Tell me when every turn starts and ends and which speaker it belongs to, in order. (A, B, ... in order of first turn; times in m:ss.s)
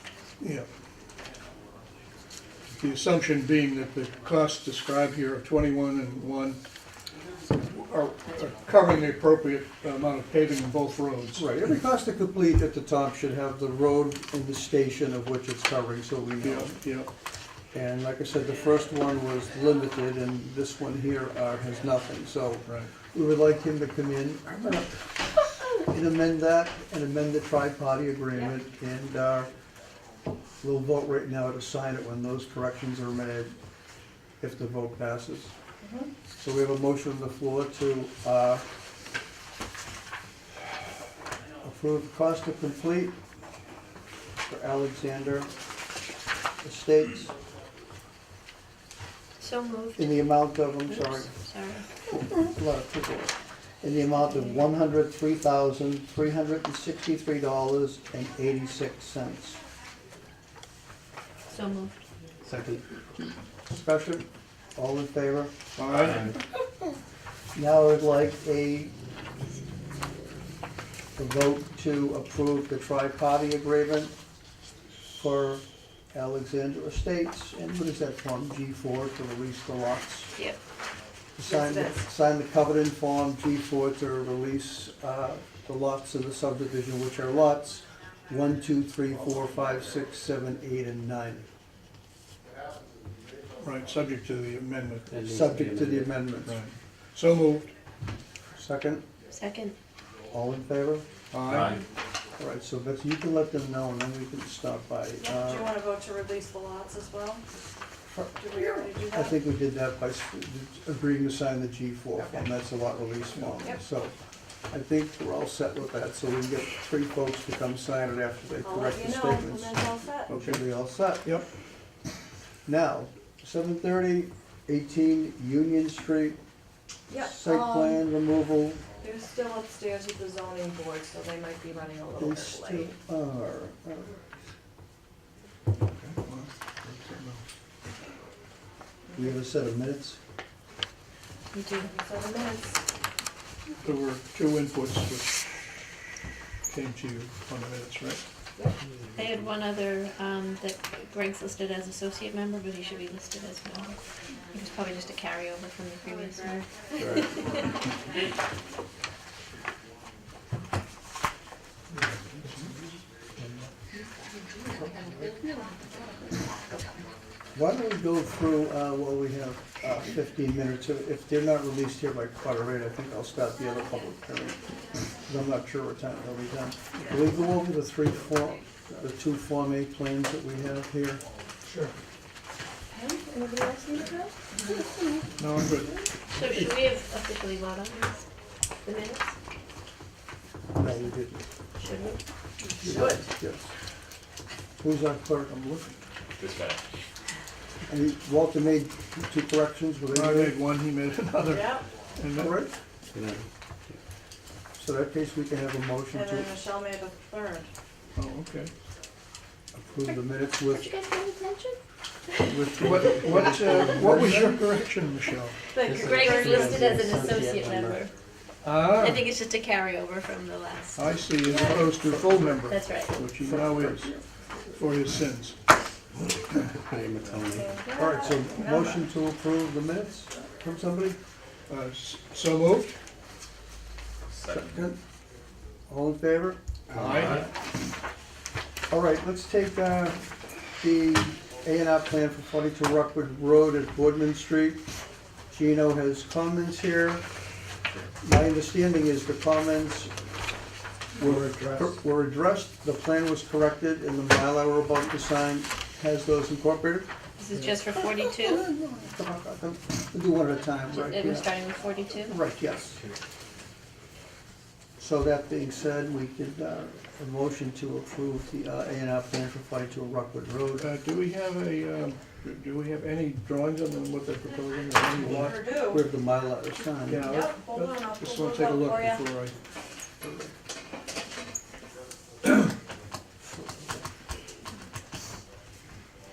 0:00.4-0:00.7 A
0:02.8-0:06.6 A
0:07.5-0:11.5 A
0:11.4-0:16.7 B
0:16.4-0:17.1 A
0:17.7-0:29.5 B
0:30.6-0:33.5 B
0:34.4-0:35.5 B
0:35.8-0:36.1 C
0:36.4-0:38.6 B
0:41.6-0:43.2 B
0:44.5-0:45.5 B
0:46.6-0:47.3 B
0:49.4-0:51.8 D
0:50.0-0:51.3 B
0:52.3-0:59.6 B
1:01.5-1:02.0 D
1:02.4-1:02.8 E
1:03.7-1:05.5 B
1:05.8-1:06.3 A
1:05.9-1:06.3 F
1:07.5-1:08.9 B
1:11.2-1:14.1 B
1:15.2-1:20.3 B
1:21.4-1:31.4 B
1:21.4-1:22.0 C
1:33.6-1:35.1 A
1:35.1-1:36.3 E
1:35.3-1:36.6 B
1:36.4-1:37.7 A
1:38.6-1:39.0 B
1:39.3-1:39.8 D
1:40.3-1:41.0 B
1:41.3-1:41.8 A
1:41.4-1:41.8 F
1:42.4-1:45.8 B
1:45.2-1:47.4 C
1:48.1-1:54.1 B
1:48.4-1:49.4 C
1:52.2-1:52.4 C
1:53.3-1:53.7 A
1:54.7-2:01.3 B
1:58.6-2:00.3 C
2:00.3-2:00.7 A
2:02.6-2:06.4 B
2:07.1-2:08.0 C
2:07.2-2:08.8 B
2:09.0-2:12.9 C
2:12.2-2:14.2 B
2:16.0-2:17.4 A
2:19.1-2:20.2 B
2:21.5-2:21.9 D
2:21.9-2:22.8 C
2:23.8-2:25.4 A
2:26.7-2:28.2 A
2:29.1-2:34.0 D
2:34.5-2:37.5 D
2:44.7-2:45.3 B
2:47.5-2:54.6 B
2:55.2-3:01.2 B
3:02.9-3:04.8 C
3:05.4-3:05.9 A
3:06.3-3:08.2 D
3:08.8-3:09.3 D
3:10.8-3:11.4 B
3:11.8-3:12.2 D
3:12.8-3:13.7 B
3:12.8-3:13.2 C
3:14.8-3:15.5 B
3:15.5-3:16.0 A
3:16.3-3:16.8 F
3:17.9-3:20.6 B
3:20.1-3:22.6 A
3:21.4-3:21.8 C
3:22.3-3:22.8 B
3:23.1-3:24.0 E
3:24.8-3:26.6 B
3:26.1-3:27.7 C
3:28.1-3:28.7 A
3:29.7-3:30.9 B
3:30.7-3:32.5 D
3:32.4-3:34.7 B
3:32.8-3:35.6 A
3:35.8-3:36.8 C
3:35.8-3:38.1 D
3:35.8-3:38.0 E
3:38.6-3:39.3 A
3:38.9-3:41.1 D
3:41.0-3:44.1 A
3:41.4-3:42.0 C
3:41.7-3:42.6 B
3:42.7-3:43.2 D
3:43.4-3:44.2 B
3:44.8-3:45.6 A
3:46.6-3:47.8 E
3:47.5-3:49.1 C
3:47.9-3:51.2 B
3:51.7-3:53.0 A
3:54.3-3:54.8 F
3:54.5-3:55.0 B
3:55.9-3:56.6 B
3:56.9-3:57.4 A
3:56.9-3:57.3 E
3:57.2-3:57.5 F
3:58.9-4:04.8 B
4:05.5-4:07.2 B
4:08.2-4:10.1 B
4:11.2-4:12.0 A
4:11.2-4:17.1 B
4:17.4-4:18.6 D
4:17.5-4:17.8 A
4:18.0-4:21.5 B
4:20.9-4:22.4 D
4:22.2-4:23.0 B
4:25.0-4:30.9 B
4:30.8-4:35.6 A
4:35.2-4:36.0 C
4:35.2-4:37.3 B
4:37.1-4:39.6 A
4:37.2-4:39.2 C
4:40.2-4:40.5 A